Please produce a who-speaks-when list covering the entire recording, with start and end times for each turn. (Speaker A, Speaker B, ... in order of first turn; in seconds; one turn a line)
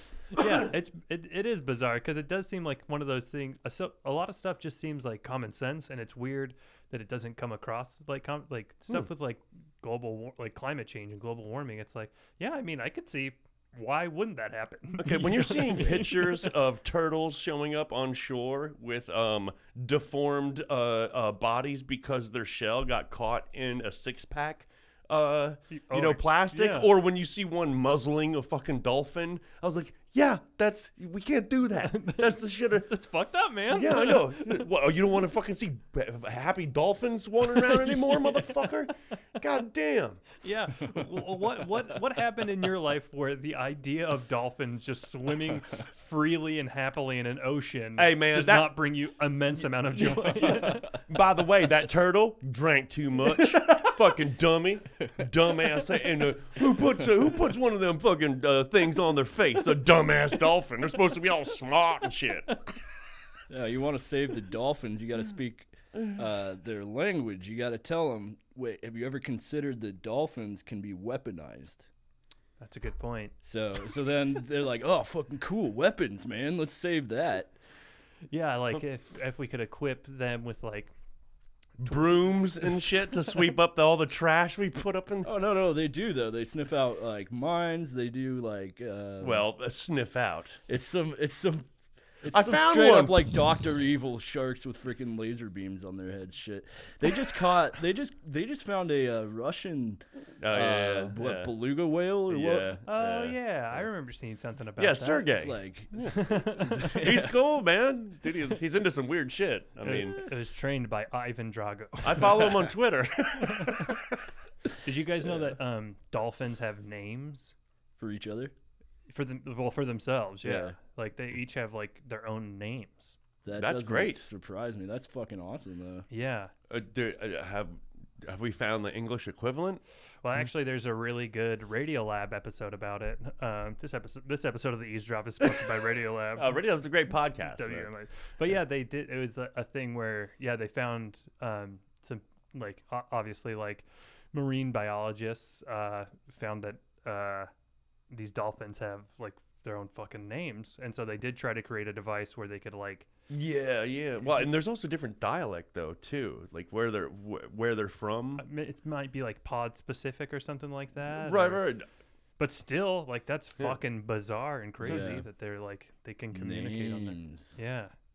Speaker A: 0.3-16.5
Speaker B: 15.0-32.9
Speaker A: 25.7-26.9
Speaker A: 31.8-34.5
Speaker B: 33.7-40.4
Speaker A: 37.8-38.5
Speaker A: 40.4-50.9
Speaker B: 48.0-48.8
Speaker B: 50.3-62.6
Speaker C: 63.5-71.8
Speaker A: 72.6-73.3
Speaker C: 73.4-77.5
Speaker A: 78.3-80.9
Speaker A: 81.8-82.8
Speaker B: 81.8-85.3
Speaker C: 85.2-89.5
Speaker B: 89.2-90.6
Speaker C: 90.7-91.7
Speaker C: 92.2-102.8
Speaker B: 92.3-93.3
Speaker B: 100.4-101.5
Speaker B: 102.3-103.4
Speaker A: 102.8-105.4
Speaker B: 104.8-110.2
Speaker C: 105.3-107.3
Speaker A: 106.0-106.8
Speaker A: 109.8-112.7
Speaker B: 112.0-114.1
Speaker A: 113.5-113.9
Speaker A: 114.8-117.5
Speaker C: 118.0-118.5
Speaker A: 119.1-123.2
Speaker C: 120.4-120.8
Speaker C: 123.4-126.0
Speaker B: 123.6-124.3
Speaker A: 126.1-126.5
Speaker B: 126.7-129.8
Speaker A: 130.2-136.6
Speaker B: 136.4-137.9
Speaker A: 137.4-147.5
Speaker A: 148.1-153.1
Speaker B: 153.3-158.4
Speaker A: 154.2-154.5
Speaker A: 158.4-161.6
Speaker B: 161.1-161.9
Speaker A: 162.4-167.9
Speaker C: 164.8-165.3
Speaker C: 166.3-167.6